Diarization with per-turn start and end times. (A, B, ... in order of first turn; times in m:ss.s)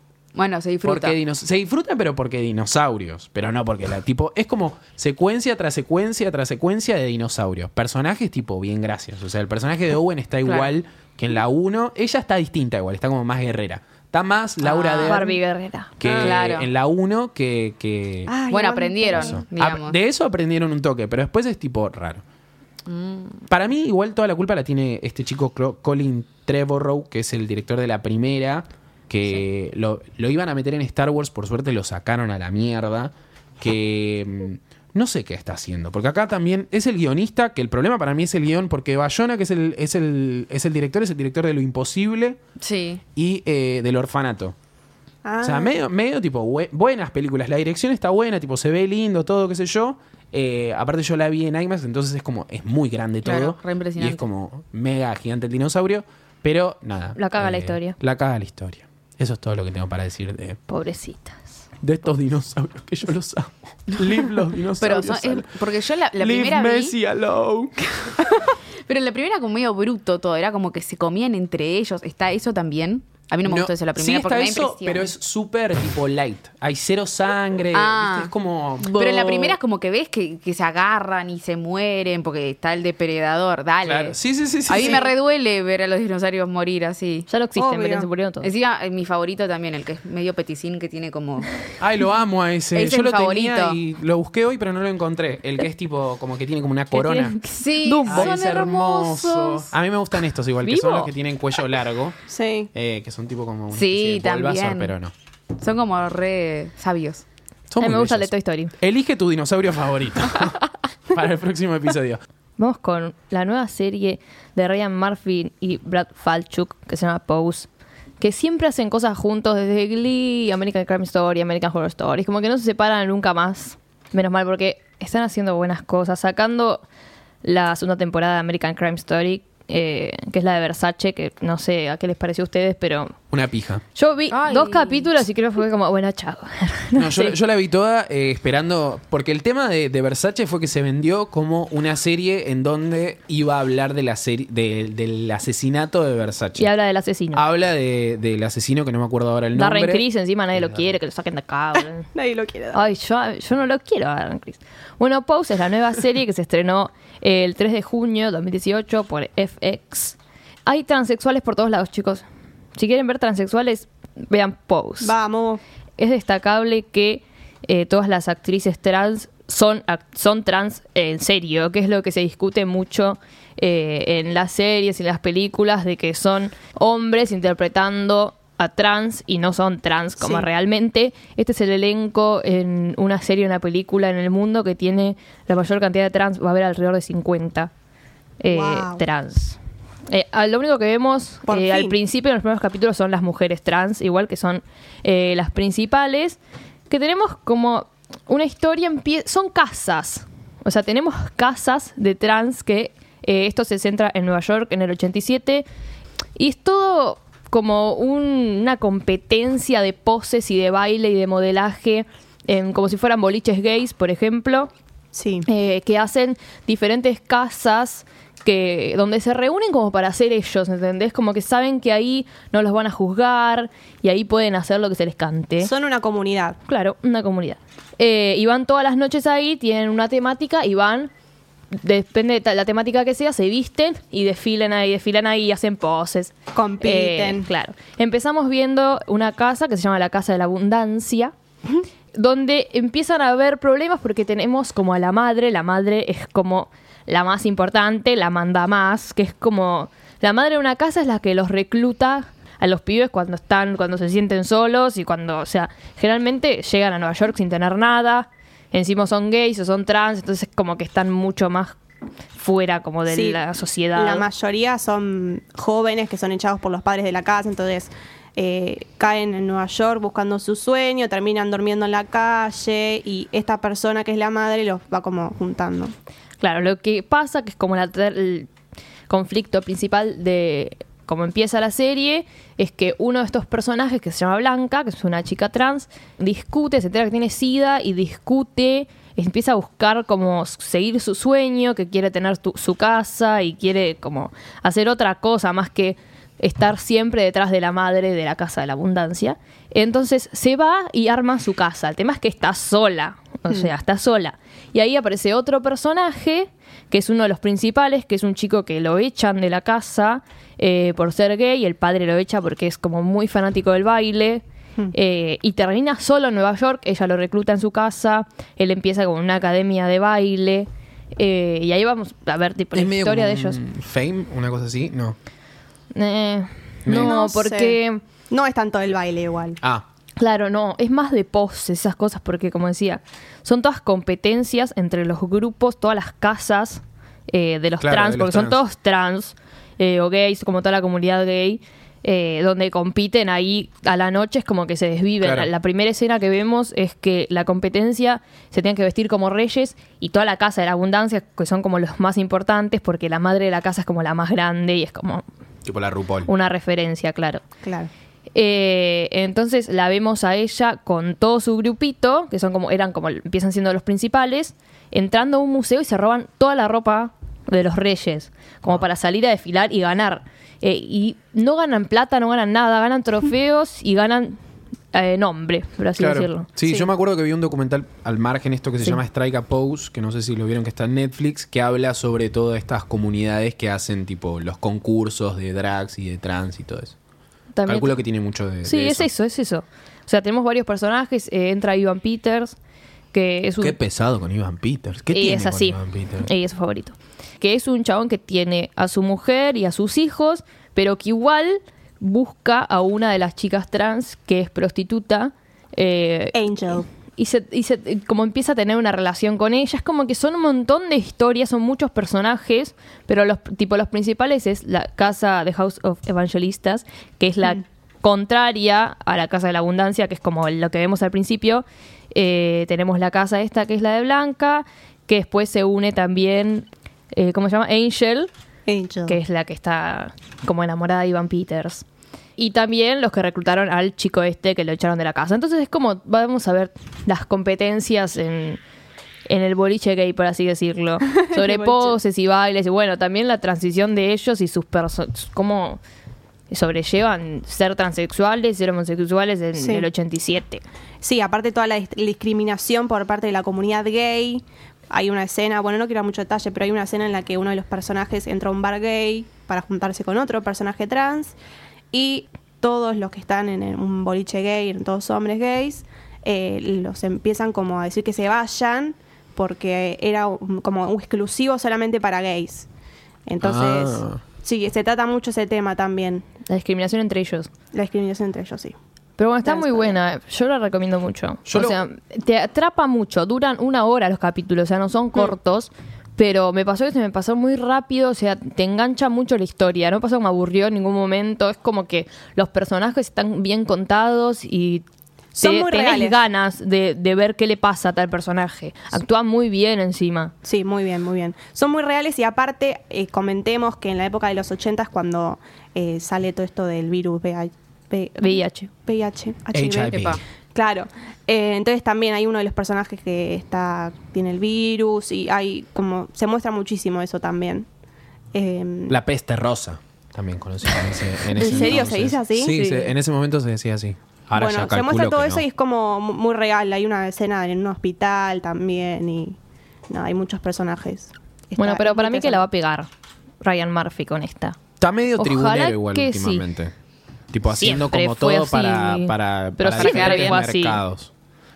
0:00.3-0:01.2 A
0:00.8-0:15.4 B
0:10.4-0:10.7 A
0:14.6-0:15.2 A
0:15.0-0:16.0 C
0:16.0-0:18.3 B
0:16.0-0:16.7 A
0:16.1-0:16.3 D
0:18.3-0:19.4 D
0:18.5-0:20.0 A
0:19.1-0:22.2 B
0:22.8-0:23.4 A
0:23.5-0:42.4 B
0:42.6-0:43.0 A
0:43.1-0:44.5 B
0:45.2-0:45.7 D
0:45.4-1:00.6 B
0:53.2-0:54.2 A
0:57.2-0:58.0 C
1:00.7-1:01.6 C
1:01.8-1:05.5 B
1:04.8-1:07.0 A
1:06.2-1:08.4 B
1:08.9-1:15.1 A
1:13.4-1:19.4 B
1:17.7-1:24.2 A
1:19.0-1:19.5 C
1:23.8-1:25.1 B
1:24.7-1:27.3 A
1:27.3-1:28.5 C
1:27.5-1:28.1 D
1:28.4-1:31.5 A
1:31.8-1:37.4 B
1:32.7-1:33.8 A
1:36.9-1:38.3 C
1:37.5-1:39.7 A
1:38.0-1:42.1 B
1:40.6-1:41.1 C
1:42.3-1:42.7 D
1:42.7-1:45.1 B
1:43.7-1:44.9 A
1:45.6-1:47.2 A
1:47.7-1:52.2 B
1:47.8-1:48.7 C
1:52.6-1:57.7 C
1:58.2-2:06.8 C
2:07.4-2:13.1 C
2:13.3-2:13.8 B
2:13.9-2:17.4 C
2:14.3-2:15.1 A
2:16.9-2:26.7 B
2:26.6-2:27.4 C
2:27.3-2:30.9 B
2:29.5-2:32.0 C
2:32.1-2:32.8 D
2:32.7-2:42.2 C
2:42.8-2:45.1 C
2:45.0-2:45.6 D
2:46.0-3:07.7 C
3:00.2-3:00.5 D
3:08.4-3:25.6 C
3:08.5-3:09.0 D
3:11.5-3:12.0 D
3:26.4-3:34.7 C
3:35.1-3:35.4 D
3:35.4-3:45.7 C
3:45.6-3:46.6 D
3:46.6-3:51.1 C
3:51.7-4:01.3 C
3:56.5-3:57.5 D
4:02.1-4:21.8 C
4:22.4-4:24.3 C
4:23.1-4:23.4 D
4:24.0-4:35.9 D
4:36.4-4:38.5 C
4:39.1-5:23.6 C
5:22.7-5:25.2 B
5:25.9-5:28.0 C
5:26.8-5:27.2 B
5:26.9-5:27.8 D
5:28.3-5:29.6 D
5:30.2-5:55.2 C
5:37.8-5:38.6 B
5:45.2-5:45.5 B
5:55.6-5:56.3 B
5:56.2-5:57.4 C
5:57.6-5:57.9 D
5:58.3-6:14.4 C
6:14.9-6:16.5 C
6:16.0-6:27.0 B
6:27.5-6:28.0 C
6:27.6-6:29.1 B
6:28.6-6:32.6 C
6:33.1-6:33.8 C
6:33.6-6:36.3 B
6:35.1-6:46.4 C
6:46.3-6:46.8 D
6:47.2-7:08.3 C
7:08.7-7:09.2 D
7:09.1-7:11.8 C
7:12.4-7:18.6 C
7:19.2-7:25.8 C
7:21.1-7:21.9 D
7:26.5-7:30.6 C
7:29.6-7:29.9 D
7:31.0-7:41.4 D
7:41.9-7:52.7 D
7:53.2-7:56.2 D
7:53.4-7:54.2 B
7:56.4-7:57.5 C
7:57.7-7:58.8 D
7:59.2-8:14.8 C
7:59.4-7:59.9 D
8:01.4-8:01.8 B
8:15.3-8:16.2 D
8:15.4-8:20.3 C
8:20.4-8:37.7 D
8:28.2-8:28.7 C
8:29.5-8:30.2 B
8:29.9-8:30.2 A
8:38.3-8:39.0 D
8:38.9-8:45.4 B
8:41.3-8:42.9 D
8:41.4-8:41.8 C
8:44.3-8:49.4 D
8:49.9-8:52.4 D
8:51.6-8:52.9 C
8:53.4-8:54.6 C
8:54.8-8:56.7 B
8:55.2-8:56.4 C
8:57.3-9:01.1 B
8:57.5-9:00.8 C
8:59.7-9:00.4 A